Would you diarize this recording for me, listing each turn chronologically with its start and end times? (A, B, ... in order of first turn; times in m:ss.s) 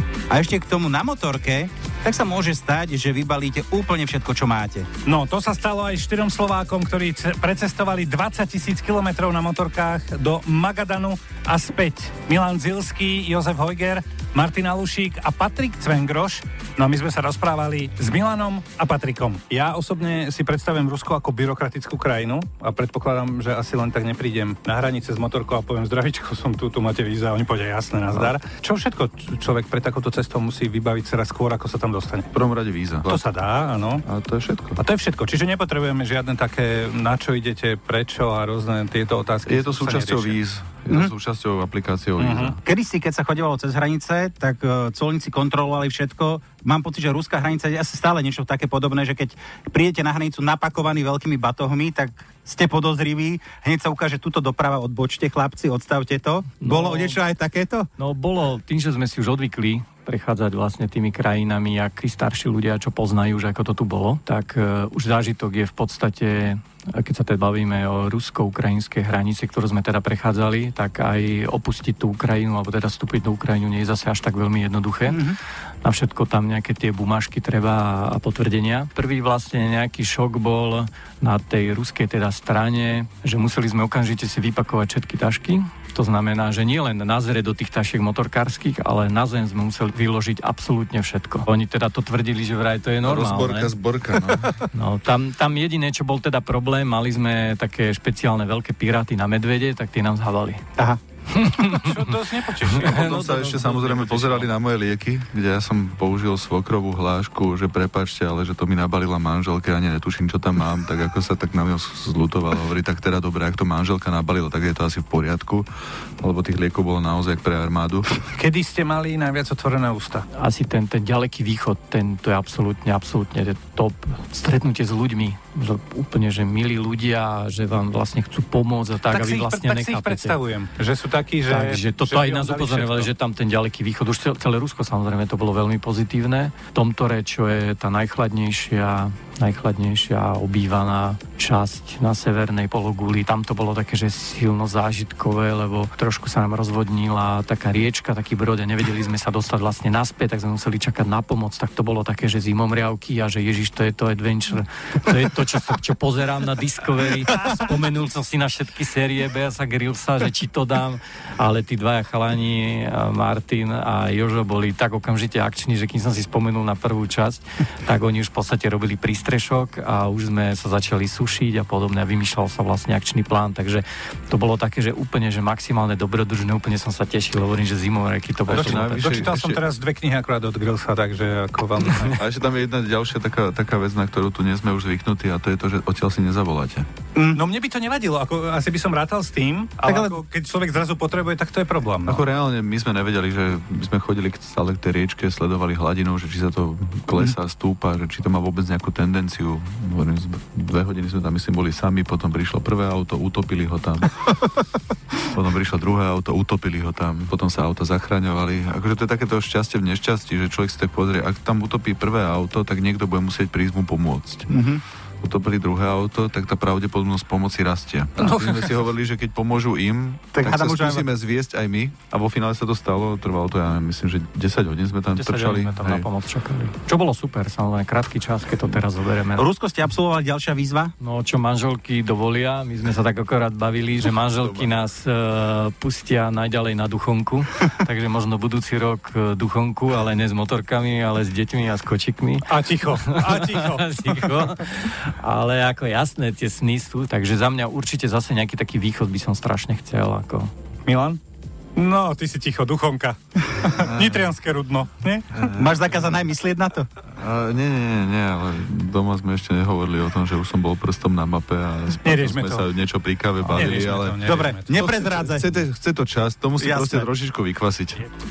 0:00.3-0:04.9 A
0:05.0-0:32.3 B
0:32.3-0:33.2 C
0:33.0-0:34.0 B
0:34.0-0:34.8 C
0:34.8-0:40.4 B
0:39.4-0:42.6 C
0:42.2-0:42.5 B
0:42.6-0:57.9 A
0:56.6-0:57.2 D
0:58.0-1:15.2 D
1:15.1-1:15.4 A
1:15.8-1:33.7 D
1:33.0-1:34.6 C
1:34.7-1:40.6 D
1:41.3-1:42.0 D
1:41.7-1:44.5 B
1:42.8-1:55.7 C
1:42.8-1:44.0 D
1:56.2-1:58.3 C
1:58.3-2:00.3 B
2:00.4-2:10.4 D
2:09.0-2:13.1 B
2:11.5-2:59.3 D
2:58.5-2:59.6 C
2:58.5-3:02.2 B
3:02.0-3:06.8 C
3:07.2-3:07.4 A
3:07.3-3:12.2 B
3:09.8-3:10.2 A
3:12.0-3:24.5 C
3:25.2-3:34.5 C
3:34.5-3:34.8 A
3:35.2-3:46.1 C
3:38.2-3:38.6 B
3:40.3-3:41.0 A
3:45.2-3:49.4 D
3:49.4-3:50.9 A
3:51.0-4:10.5 D
4:02.5-4:04.3 B
4:10.8-4:11.2 B
4:11.8-4:15.4 B
4:13.9-4:14.1 C
4:15.3-4:15.7 C
4:15.6-4:16.9 A
4:17.1-4:28.0 C
4:22.0-4:22.6 B
4:23.4-4:24.7 B
4:24.2-4:25.5 A
4:26.6-4:27.1 A